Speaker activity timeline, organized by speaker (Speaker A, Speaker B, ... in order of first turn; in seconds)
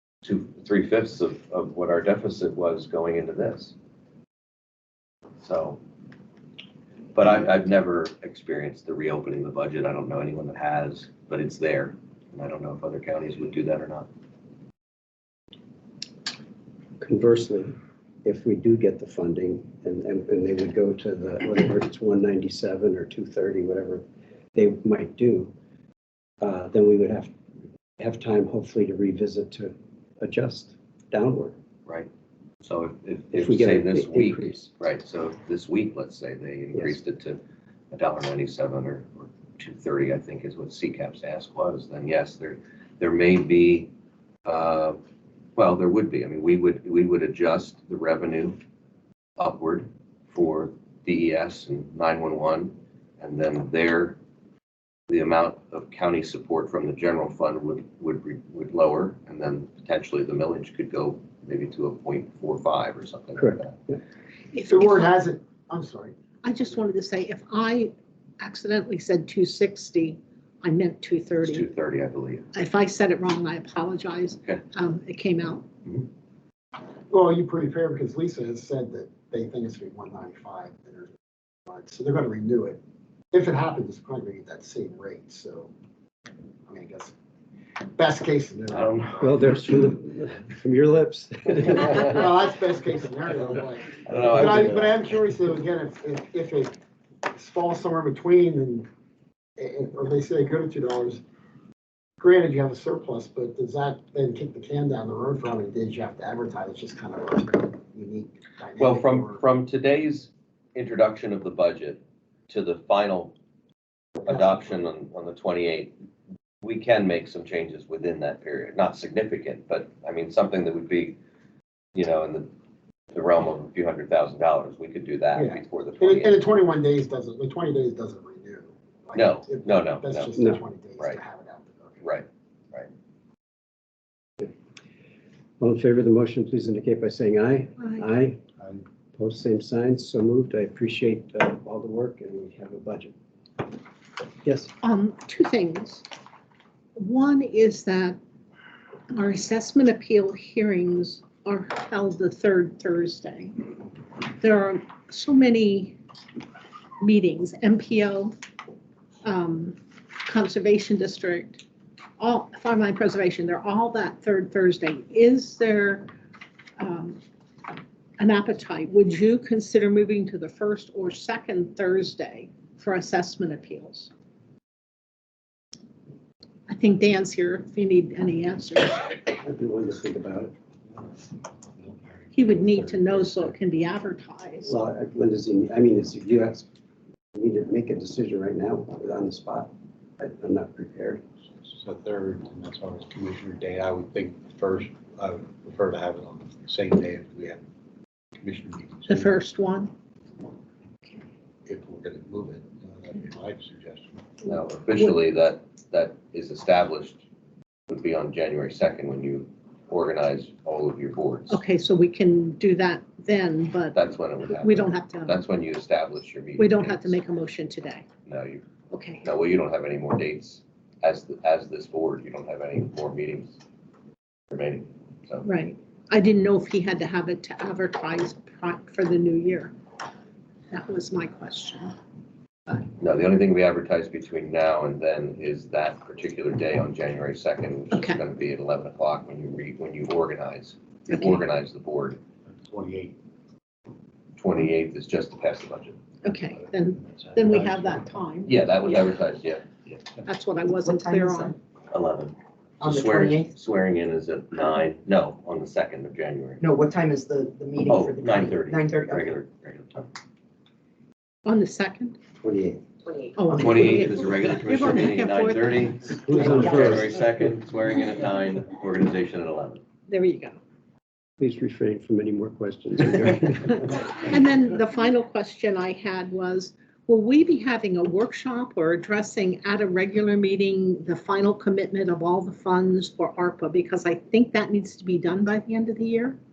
Speaker A: 0.2-3.7, 5.4-5.8, 7.2-14.1, 32.6-43.9, 44.5-45.0, 45.6-48.6, 49.4-54.2, 55.1-63.8, 71.4-72.5, 88.7-89.3, 94.0-95.0, 108.8-113.3, 114.3-116.0, 116.6-121.2, 122.0-122.5, 123.1-126.4, 129.1-130.3, 132.0-132.9, 204.4-207.2, 207.9-211.6, 213.9-217.2, 218.3-218.7, 219.2-223.6, 224.5-225.5, 233.0-242.2, 244.4-246.0, 248.5-250.0, 251.9-256.6, 257.9-260.1, 263.5-269.8
Speaker B: 17.0-24.0, 24.6-25.5, 26.4-27.3, 28.0-31.6, 33.3-34.7, 63.4-64.0, 89.2-92.3, 130.3-130.6, 135.6-138.4, 139.1-143.1, 144.4-144.7, 179.4-180.5, 184.6-186.7, 187.3-191.2, 266.1-267.3, 271.4-274.2
Speaker C: 64.5-65.2, 66.4-71.7, 72.5-75.7, 137.8-138.1, 144.8-146.1, 147.0-148.2, 149.1-153.7, 154.4-156.0, 157.0-158.3, 159.2-161.6, 162.2-166.1, 166.8-167.2, 168.2-174.1, 176.7-179.2, 182.3-184.7, 199.1-199.9, 211.5-215.4, 216.6-218.1, 218.9-219.2, 225.4-229.8, 230.7-231.9, 237.9-238.2, 246.2-248.6, 250.2-251.6, 261.5-262.2, 263.3-265.9, 270.1-270.6, 273.8-286.4
Speaker D: 64.7-66.2, 77.1-81.1, 81.7-82.8, 83.3-85.7, 86.7-87.1, 88.0-89.0, 92.0-96.8, 97.3-98.9, 99.6-101.2, 102.2-109.4, 114.2-114.6, 125.3-132.0
Speaker E: 181.8-183.4, 191.7-197.6, 198.4-199.4, 201.7-204.3, 242.5-243.1, 246.4-248.1
Speaker F: 250.9-251.4, 252.8-253.5, 256.6-259.3, 262.4-262.8